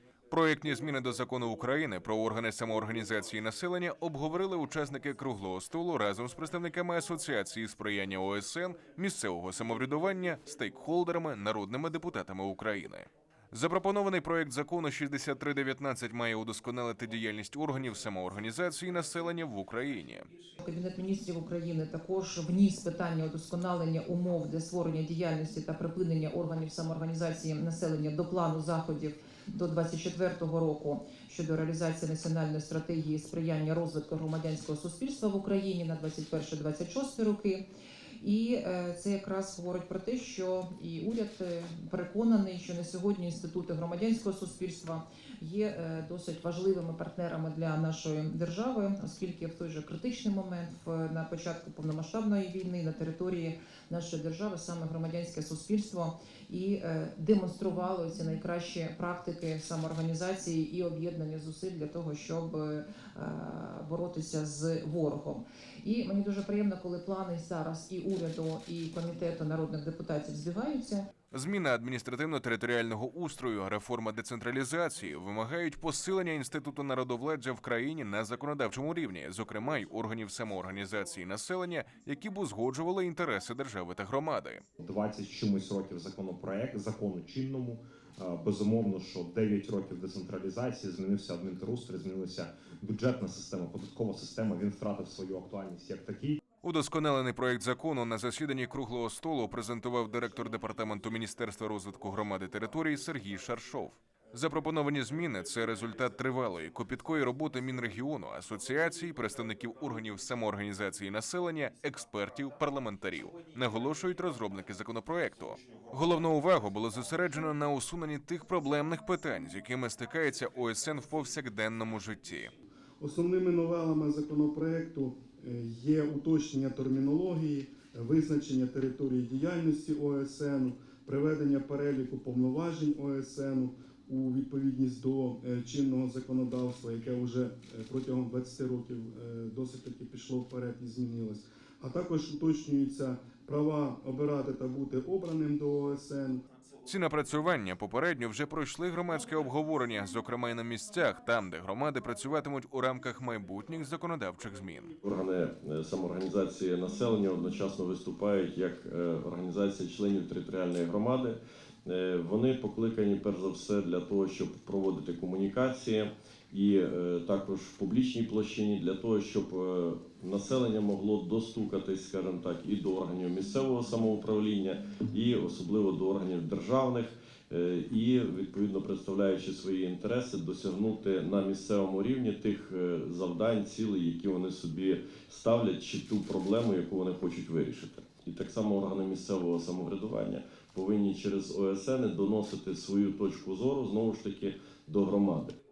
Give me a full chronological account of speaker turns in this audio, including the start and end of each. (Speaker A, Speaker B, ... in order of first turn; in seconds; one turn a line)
Speaker A: 0.3-20.3
Speaker B: 20.6-37.6
Speaker B: 38.2-71.0
Speaker A: 71.3-84.6
Speaker C: 84.8-96.4
Speaker A: 96.6-122.5
Speaker D: 123.0-146.4
Speaker A: 146.8-154.9
Speaker E: 155.0-195.5